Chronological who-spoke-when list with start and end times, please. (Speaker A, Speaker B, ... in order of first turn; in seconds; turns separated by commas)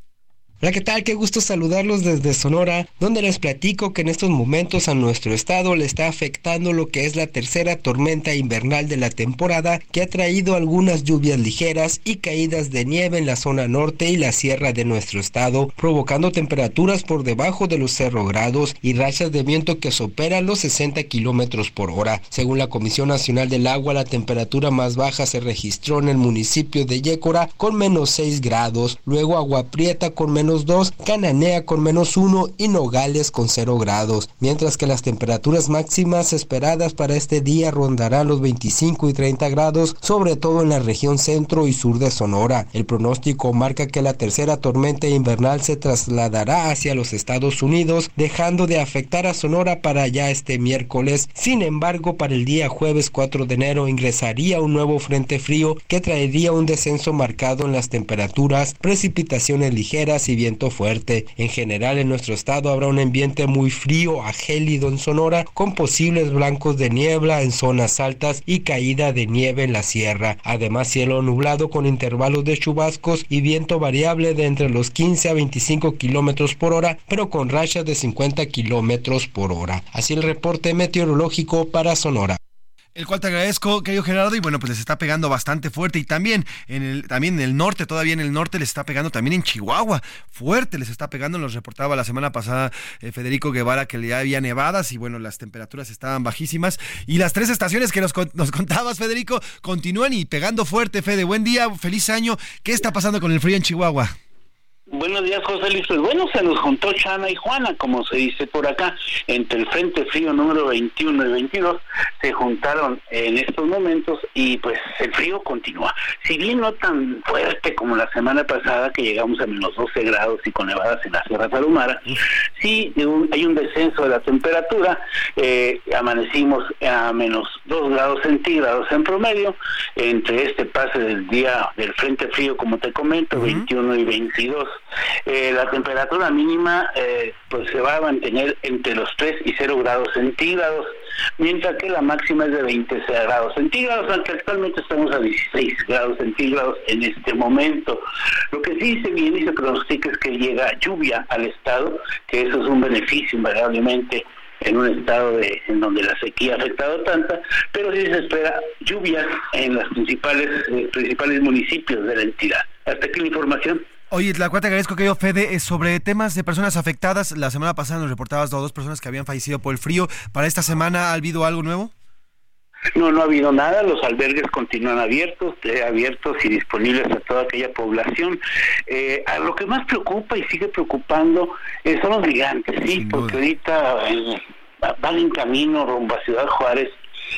Speaker A: 0.6-82.4, Speaker B: 83.0-104.1, Speaker C: 104.9-134.8, Speaker B: 133.4-133.7, Speaker C: 135.3-163.8, Speaker B: 164.1-171.9, Speaker C: 172.9-187.0, Speaker B: 182.9-183.4